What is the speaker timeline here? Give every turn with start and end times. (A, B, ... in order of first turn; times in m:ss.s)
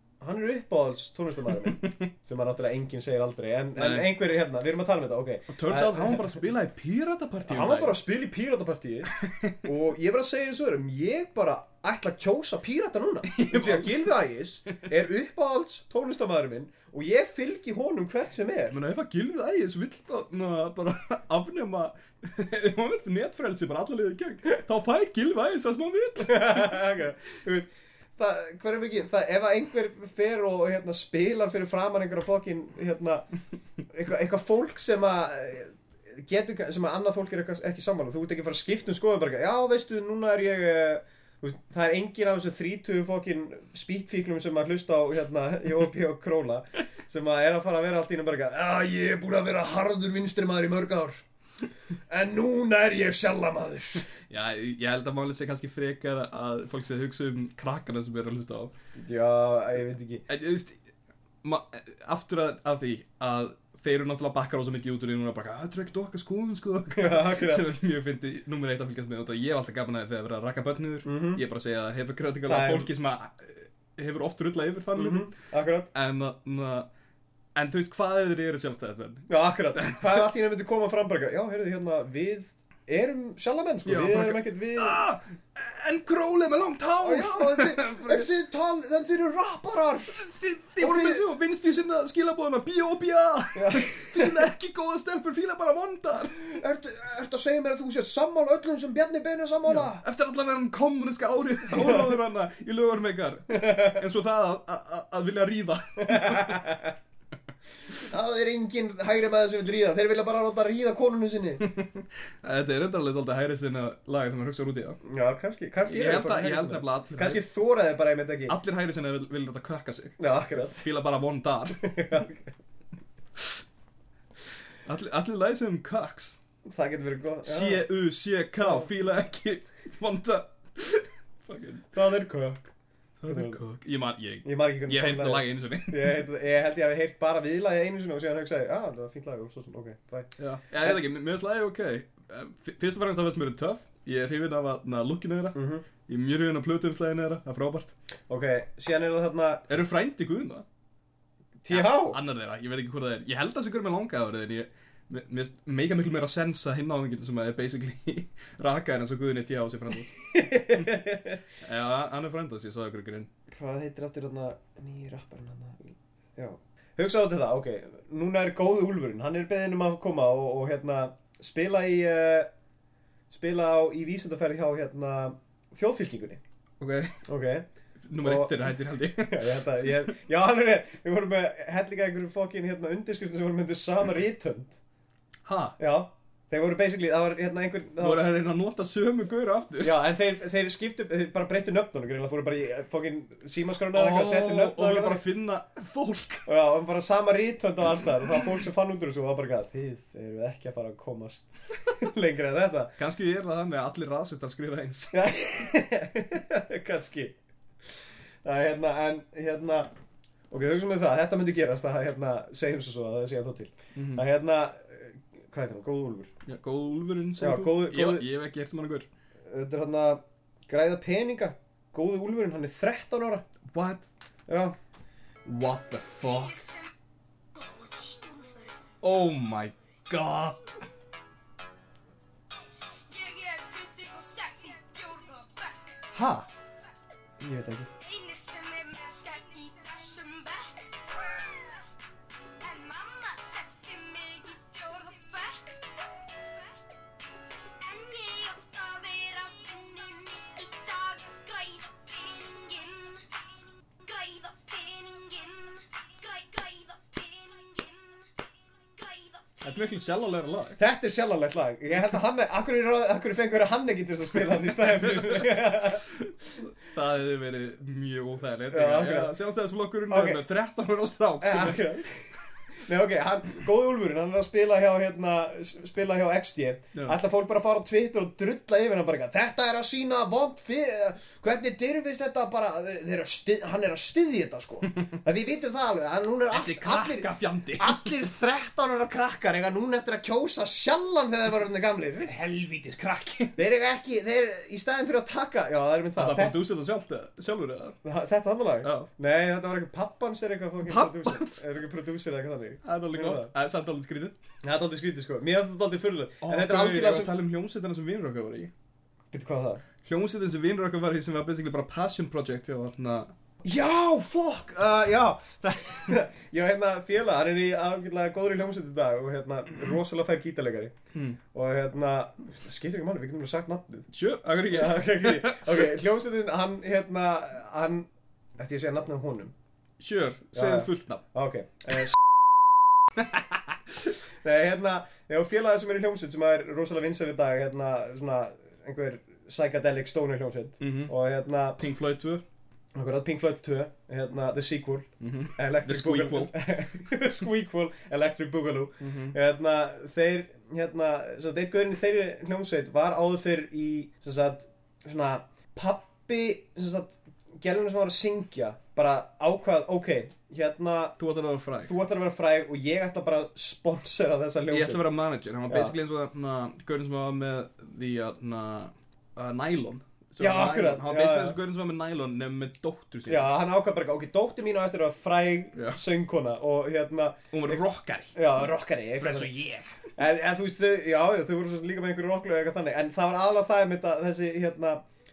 0:00.2-0:06.4 A
0:01.6-0:02.0 B
0:03.8-0:04.1 B
0:05.5-0:08.0 B
0:07.4-0:18.8 A
0:09.2-0:09.6 B
0:13.3-0:14.0 B
0:18.7-0:26.8 B
0:26.2-0:33.2 A
0:33.9-0:51.2 A
0:52.1-0:54.1 A
0:54.3-0:58.7 B
0:59.0-1:00.2 A
1:00.3-1:00.8 B
1:01.4-1:15.3 B
1:07.0-1:07.7 A
1:11.0-1:11.4 A
1:12.5-1:12.9 A
1:15.0-1:15.9 A
1:15.9-1:16.9 B
1:17.6-1:20.2 B
1:19.3-1:25.0 A
1:23.8-1:28.3 B
1:27.0-1:30.3 A
1:30.1-1:36.4 B
1:30.8-1:31.2 A
1:33.6-1:34.4 A
1:36.4-1:40.0 A
1:39.7-1:46.6 B
1:43.6-1:44.0 A
1:46.0-1:46.9 A
1:48.0-1:51.7 A
1:51.6-1:55.0 B
1:55.0-1:58.6 A
1:55.9-1:57.4 B
1:58.5-2:01.8 B
2:00.2-2:00.8 A
2:01.8-2:02.5 A
2:04.8-2:06.4 B
2:06.7-2:07.8 A
2:07.4-2:11.9 B
2:11.9-2:12.7 A
2:13.2-2:16.2 B
2:13.3-2:13.6 A
2:14.4-2:21.0 A
2:20.4-2:28.0 B
2:25.6-2:25.8 A
2:28.3-2:29.6 A
2:29.7-2:30.6 B
2:31.6-2:32.2 A
2:31.7-2:41.0 B
2:40.3-2:41.4 A
2:41.6-2:43.3 B
2:43.5-2:52.5 A
2:53.3-2:56.4 A
2:56.8-2:57.2 B
2:57.3-2:57.7 A
2:58.0-2:59.9 B
2:58.2-2:58.7 A
2:59.2-3:04.8 A
3:05.4-3:05.8 B
3:05.8-3:08.2 A
3:08.0-3:10.0 B
3:09.8-3:15.2 A
3:13.9-3:16.5 B
3:16.5-3:22.9 A
3:23.0-3:25.3 B
3:25.1-3:27.4 A
3:28.4-3:29.9 A
3:30.5-3:36.3 A
3:34.0-3:34.2 B
3:36.5-3:39.1 B
3:37.4-3:38.3 A
3:39.5-3:43.4 A
3:43.7-3:44.1 B
3:44.5-3:44.8 A
3:45.4-3:46.7 B
3:46.2-3:46.9 C
3:47.5-3:49.0 C
3:49.0-3:50.6 B
3:53.1-3:56.1 C
3:56.1-3:56.5 B
3:57.4-3:57.9 A
3:58.0-4:01.9 C
4:02.6-4:06.8 C
4:07.8-4:19.5 C
4:19.6-4:20.8 B
4:20.8-4:26.1 A
4:24.8-4:32.0 B
4:28.7-4:29.4 A
4:30.1-4:30.4 A
4:31.4-4:52.6 A
4:46.5-4:48.0 B
4:52.4-4:53.6 B
4:53.5-4:56.6 A
4:56.2-4:58.0 B
4:58.0-5:03.5 A
4:58.8-4:59.1 B
5:00.8-5:01.6 B
5:02.8-5:04.4 B
5:04.6-5:07.3 A
5:06.4-5:08.7 B
5:09.3-5:09.8 A
5:10.0-5:13.3 B
5:13.6-5:20.9 A
5:21.5-5:24.1 A
5:24.1-5:25.9 B
5:24.7-5:29.5 A
5:30.0-5:31.2 B
5:30.5-5:32.3 A
5:34.4-5:41.8 A
5:40.8-5:41.1 B
5:41.8-5:42.4 B
5:43.0-6:01.2 A
5:45.2-5:46.8 B
5:49.0-5:49.4 B
6:01.2-6:01.9 B
6:01.8-6:05.1 A
6:04.7-6:13.5 B
6:05.7-6:05.9 A
6:10.4-6:11.6 A
6:13.3-6:17.8 A
6:15.7-6:16.0 B
6:17.5-6:18.4 B
6:18.4-6:19.5 A
6:19.2-6:20.0 B
6:20.2-6:25.0 A